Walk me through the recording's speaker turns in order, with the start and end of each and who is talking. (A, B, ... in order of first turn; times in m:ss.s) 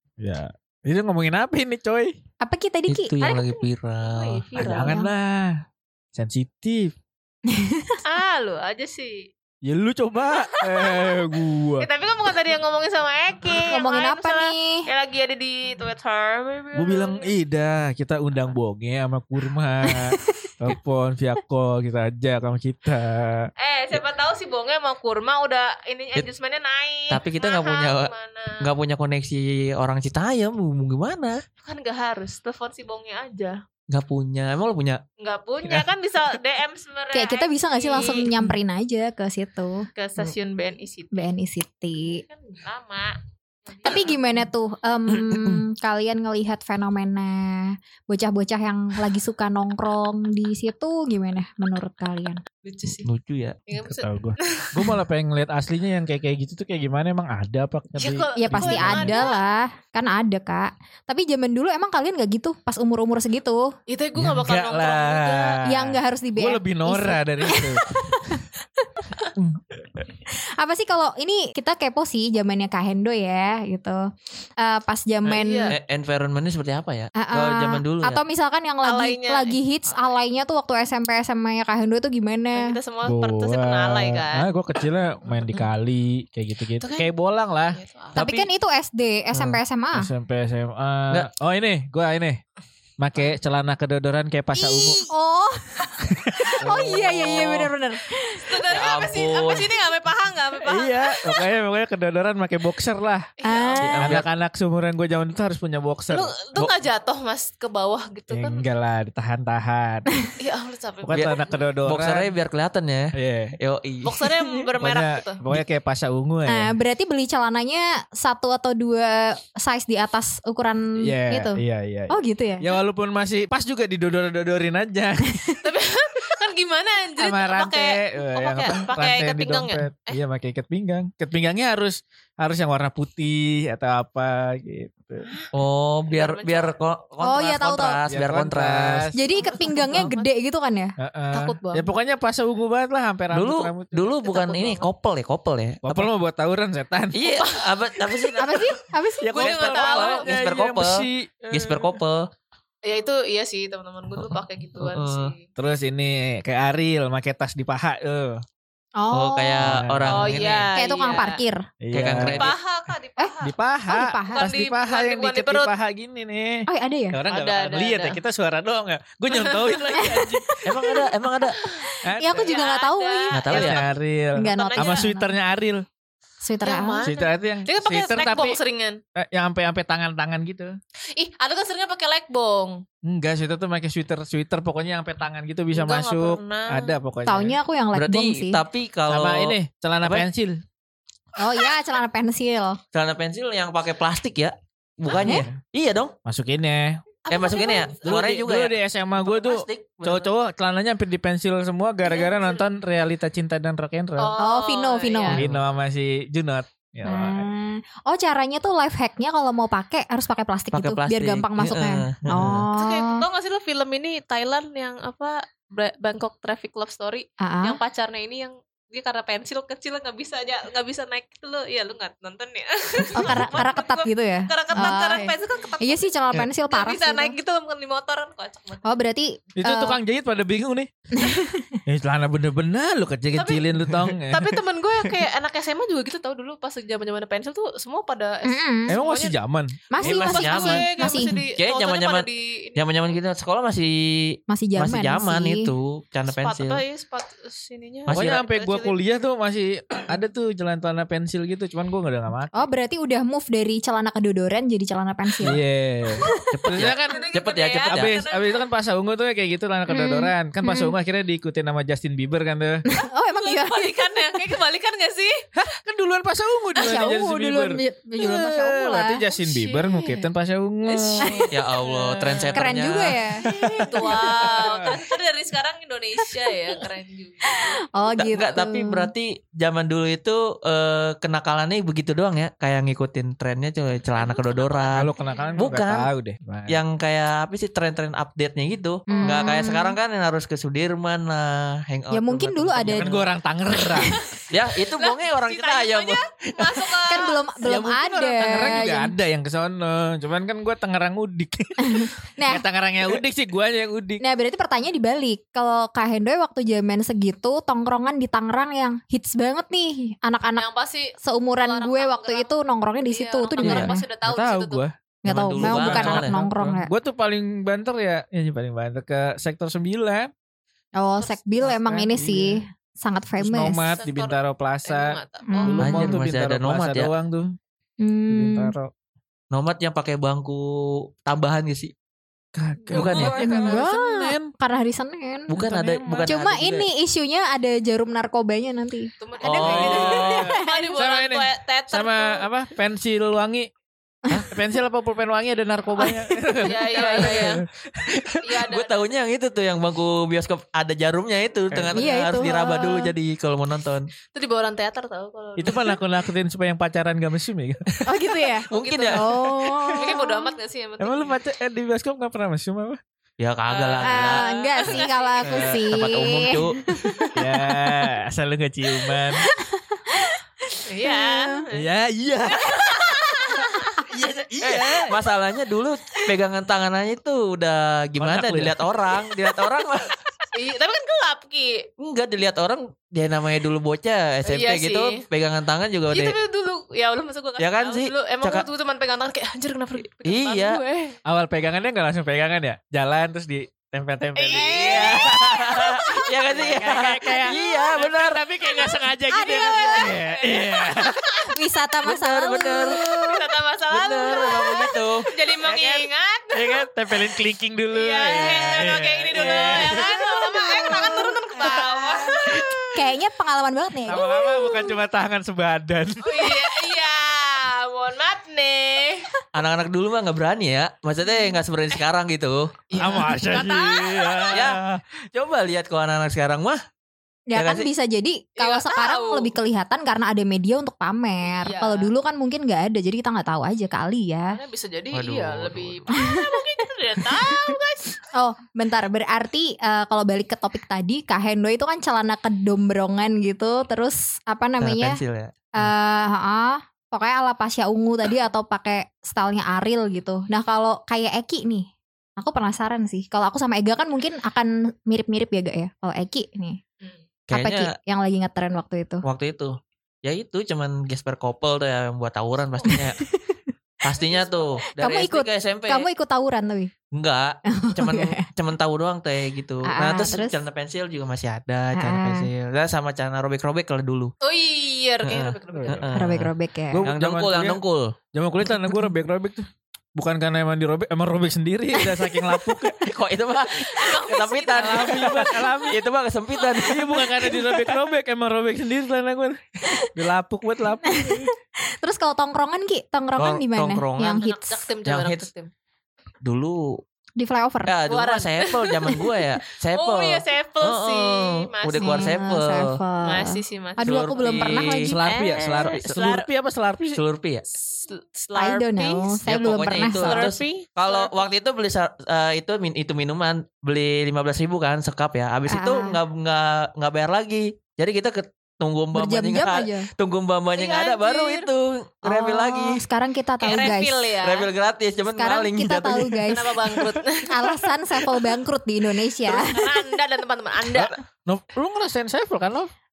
0:00.2-0:02.2 A
0:02.4-0:03.1 B
0:02.9-0:04.8 C
0:03.2-0:05.0 D
0:04.6-0:05.6 A
0:04.8-0:05.1 B
0:06.1-0:06.9 A
0:07.5-0:08.0 B
0:08.0-0:09.3 D
0:09.6-0:11.9 A
0:10.3-0:11.2 D
0:11.8-0:17.3 D
0:13.7-0:14.9 B
0:16.8-0:23.5 A
0:19.9-0:20.3 B
0:23.6-0:28.6 D
0:27.1-0:31.4 C
0:31.6-0:33.6 D
0:33.9-0:35.0 C
0:35.2-0:38.4 D
0:37.1-0:39.9 B
0:40.0-0:41.3 D
0:41.1-0:42.2 B
0:42.0-0:44.2 D
0:43.8-0:52.4 B
0:45.1-0:45.6 C
0:52.6-0:53.1 D
0:53.0-0:53.6 C
0:53.7-0:54.9 D
0:53.8-0:59.3 A
0:58.0-0:59.4 D
0:58.4-1:03.8 B
1:03.9-1:05.6 D
1:04.2-1:08.4 A
1:05.6-1:09.0 B
1:09.4-1:09.8 A
1:10.3-1:15.7 B
1:15.3-1:15.8 D
1:15.7-1:18.2 C
1:17.2-1:22.8 B
1:18.8-1:20.2 D
1:22.5-1:24.5 D
1:23.0-1:27.8 A
1:25.2-1:25.6 D
1:26.8-1:27.1 D
1:27.7-1:28.2 D
1:28.2-1:28.5 C
1:28.2-1:30.1 B
1:29.9-1:32.4 A
1:33.0-1:35.0 A
1:34.6-1:38.6 B
1:36.0-1:37.7 A
1:38.3-1:41.4 D
1:38.7-1:39.7 C
1:40.6-1:43.3 A
1:43.4-1:44.1 D
1:43.4-1:44.1 B
1:43.8-1:44.2 C
1:44.0-1:46.3 A
1:46.1-1:48.7 D
1:48.3-1:50.1 A
1:50.4-1:51.7 D
1:51.0-1:52.3 A
1:51.1-1:54.3 C
1:53.1-1:53.6 A
1:54.0-1:55.4 D
1:54.8-1:56.8 A
1:56.5-2:02.6 B
2:01.0-2:05.4 A
2:05.6-2:10.2 D
2:07.2-2:15.3 A
2:15.3-2:15.5 D
2:15.5-2:19.1 C
2:16.1-2:16.8 D
2:17.2-2:18.0 B
2:18.1-2:19.2 A
2:19.2-2:21.0 B
2:19.3-2:20.3 D
2:21.0-2:24.2 A
2:21.3-2:21.9 D
2:23.3-2:26.1 C
2:24.2-2:24.8 D
2:25.8-2:27.2 A
2:27.1-2:32.3 C
2:27.4-2:28.6 D
2:28.4-2:29.6 B
2:29.3-2:30.3 D
2:29.4-2:32.0 A
2:32.8-2:35.5 D
2:34.8-2:35.3 C
2:35.6-2:38.4 A
2:39.0-2:39.8 B
2:39.1-2:40.7 C
2:39.6-2:40.5 A
2:40.1-2:41.4 D
2:40.7-2:41.7 B
2:41.8-2:42.5 A
2:41.9-2:42.6 C
2:42.1-2:43.6 D
2:43.4-2:50.6 A
2:43.9-2:44.6 B
2:44.3-2:45.7 D
2:46.7-2:47.2 B
2:47.3-2:48.2 D
2:49.3-2:50.1 D
2:50.0-2:53.6 B
2:50.6-2:51.6 C
2:51.5-2:55.1 D
2:52.0-2:52.5 A
2:53.3-2:53.8 C
2:53.5-2:55.9 A
2:54.4-2:55.3 B
2:56.4-2:57.1 B
2:56.6-2:59.0 D
2:57.0-2:58.6 A
2:59.2-3:00.8 A
3:01.1-3:02.8 D
3:03.0-3:07.6 A
3:05.7-3:07.0 D
3:07.3-3:08.6 B
3:07.9-3:10.2 C
3:09.1-3:10.6 A
3:11.4-3:12.8 B
3:12.9-3:16.1 C
3:15.2-3:15.6 A
3:16.2-3:17.0 A
3:17.2-3:18.0 D
3:17.3-3:20.3 C
3:18.0-3:24.4 A
3:22.0-3:22.6 D
3:24.2-3:25.4 D
3:24.4-3:25.4 B
3:25.3-3:27.5 A
3:27.0-3:33.2 B
3:30.7-3:32.6 C
3:32.8-3:46.1 D
3:37.4-3:37.8 B
3:43.1-3:47.4 B
3:46.7-3:49.0 D
3:48.8-3:50.0 B
3:49.6-3:50.9 A
3:51.2-3:51.8 B
3:51.9-3:54.4 A
3:53.3-3:53.7 D
3:54.3-3:59.4 D
3:58.4-3:59.0 B
3:58.9-3:59.8 A
3:59.9-4:01.4 B
4:00.0-4:06.8 C
4:00.0-4:02.8 D
4:04.5-4:05.7 B
4:06.3-4:09.0 D
4:08.1-4:12.7 A
4:08.1-4:08.4 C
4:12.5-4:15.6 B
4:15.4-4:17.2 A
4:16.2-4:16.5 B
4:16.5-4:18.1 C
4:16.8-4:18.6 D
4:17.9-4:22.8 A
4:19.9-4:21.0 B
4:22.9-4:24.5 B
4:23.4-4:25.4 D
4:25.6-4:31.3 A
4:26.8-4:30.2 B
4:30.8-4:32.8 D
4:31.2-4:31.5 B
4:31.5-4:33.3 C
4:32.5-4:34.3 B
4:33.4-4:34.9 A
4:33.8-4:38.1 D
4:37.5-4:39.1 B
4:38.2-4:46.1 C
4:44.1-4:45.6 D
4:44.9-4:46.8 A
4:46.7-4:53.3 C
4:49.1-4:50.0 B
4:49.1-4:49.5 D
4:52.1-4:53.1 B
4:52.8-4:54.2 A
4:54.1-4:57.6 D
4:54.5-4:56.2 C
4:57.0-4:59.1 B
4:57.6-5:04.2 A
5:01.8-5:02.6 B
5:04.2-5:10.7 B
5:10.6-5:12.5 D
5:11.2-5:14.0 B
5:13.1-5:14.8 D
5:13.6-5:13.9 C
5:14.2-5:14.9 A
5:15.2-5:16.3 C
5:15.2-5:16.9 B
5:15.6-5:20.3 A
5:21.0-5:23.9 B
5:21.2-5:21.5 D
5:21.6-5:22.6 A
5:23.4-5:27.5 A
5:23.8-5:26.1 D
5:25.5-5:26.2 B
5:25.8-5:27.1 C
5:28.0-5:28.8 B
5:28.3-5:28.9 A
5:29.5-5:31.9 C
5:32.6-5:34.5 A
5:32.9-5:33.9 D
5:32.9-5:33.3 C
5:33.4-5:35.7 B
5:35.5-5:36.9 C
5:35.6-5:36.4 A
5:36.2-5:40.9 B
5:39.2-5:42.5 D
5:39.4-5:40.5 C
5:39.5-5:43.7 A
5:44.5-5:48.4 A
5:46.0-5:46.2 B
5:46.6-5:47.6 D
5:48.4-5:49.1 D
5:48.6-5:54.1 C
5:51.7-5:52.1 A
5:51.9-5:53.1 B
5:54.3-5:56.0 D
5:55.6-5:58.0 A
5:58.1-6:00.5 B
5:58.7-5:59.4 D
5:58.7-5:59.4 C
5:59.9-6:01.4 D
6:01.0-6:03.0 A
6:03.4-6:06.8 C
6:03.7-6:05.6 D
6:04.0-6:08.0 B
6:07.4-6:09.5 A
6:09.3-6:11.6 B
6:10.9-6:11.9 D
6:11.7-6:13.5 A
6:12.4-6:14.1 D
6:14.0-6:15.2 A
6:14.6-6:20.2 C
6:18.2-6:18.8 A
6:20.5-6:21.9 D
6:22.0-6:26.4 C
6:24.4-6:25.2 D
6:26.1-6:31.2 D
6:27.6-6:28.7 C
6:30.2-6:30.8 C
6:31.3-6:35.9 A
6:34.4-6:35.4 D
6:34.6-6:36.1 B
6:34.7-6:38.4 C
6:36.2-6:36.8 D
6:36.5-6:41.4 A
6:37.4-6:41.1 D
6:39.3-6:40.2 B
6:41.5-6:43.0 B
6:42.0-6:43.3 C
6:43.1-6:46.9 D
6:43.9-6:45.3 C
6:45.6-6:52.9 A
6:47.9-6:52.9 D
6:48.4-6:50.1 C
6:52.9-6:54.5 B
6:54.0-6:56.6 A
6:54.3-6:54.9 D
6:56.2-6:59.3 D
6:59.5-7:02.8 C
7:02.9-7:04.7 D
7:02.9-7:05.0 A
7:04.5-7:06.8 C
7:07.5-7:14.6 B
7:07.5-7:07.9 C
7:08.6-7:09.5 D
7:11.6-7:12.1 D
7:14.5-7:18.2 D
7:15.1-7:16.1 C
7:16.2-7:16.5 B
7:18.3-7:25.2 B
7:24.8-7:25.9 C
7:25.8-7:36.8 B
7:37.5-7:37.9 C
7:37.5-7:39.2 B
7:39.2-7:43.2 C
7:42.9-7:43.6 B
7:44.0-7:46.1 C
7:44.1-7:44.8 D
7:45.0-7:46.9 B
7:47.1-7:54.3 C
7:47.7-7:48.4 B
7:49.8-7:50.6 B
7:51.9-7:52.5 B
7:54.4-7:56.2 D
7:55.2-7:56.5 C
7:55.7-7:57.8 A
7:56.1-7:57.1 B
7:57.0-7:58.2 C
7:58.3-8:03.0 A
8:01.9-8:02.7 B
8:03.0-8:07.6 C
8:03.7-8:05.6 D
8:04.7-8:06.0 A
8:06.8-8:11.5 A
8:11.0-8:14.9 B
8:13.4-8:14.4 C
8:14.4-8:15.7 D
8:15.0-8:15.5 C
8:16.4-8:17.0 C
8:17.4-8:18.0 B
8:17.9-8:23.0 C
8:18.1-8:19.3 D
8:19.9-8:22.4 D
8:22.0-8:25.2 B
8:23.2-8:26.5 D
8:24.0-8:25.1 C
8:25.0-8:27.2 A
8:25.9-8:26.2 C
8:27.1-8:27.6 C
8:27.8-8:29.4 D
8:28.6-8:30.5 B
8:29.5-8:43.0 C
8:30.2-8:31.5 D
8:35.7-8:36.2 B
8:39.1-8:40.1 B
8:40.8-8:41.7 D
8:42.2-8:44.3 B
8:43.6-8:44.7 D
8:44.4-8:46.5 C
8:45.3-8:46.9 B
8:46.5-8:48.6 D
8:47.5-8:50.2 B
8:49.4-8:51.1 D
8:50.9-8:52.9 A